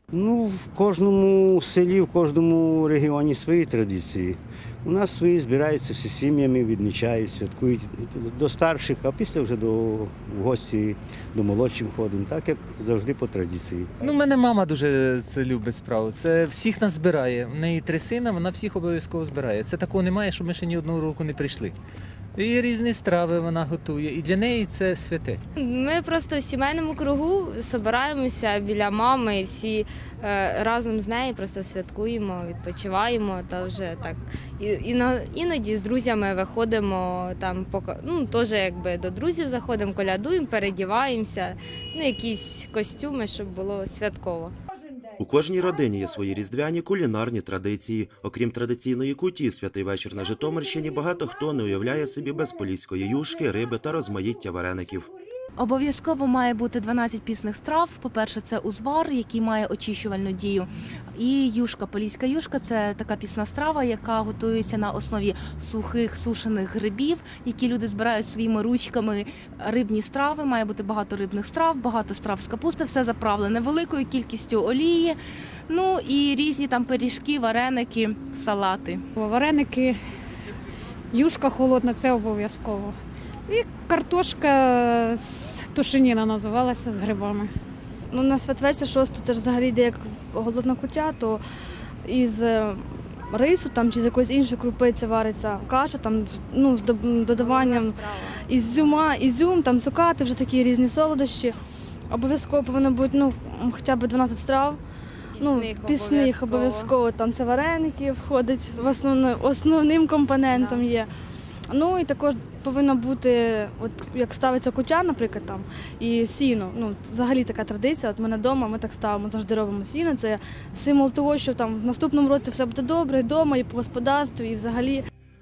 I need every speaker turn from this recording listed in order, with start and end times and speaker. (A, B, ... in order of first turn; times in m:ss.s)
0:00.1-0:14.0 A
0:14.0-0:21.8 B
0:22.4-0:25.4 B
0:25.6-0:44.5 C
0:45.2-0:55.1 D
0:55.6-1:19.0 E
1:19.2-1:20.0 F
1:21.1-1:22.9 F
1:23.5-1:27.5 F
1:28.1-1:31.4 G
1:32.0-1:41.5 G
1:37.4-1:38.4 C
1:42.1-1:44.8 G
1:45.4-1:46.9 C
1:45.4-1:51.1 G
1:50.5-1:50.8 C
1:51.7-2:05.0 G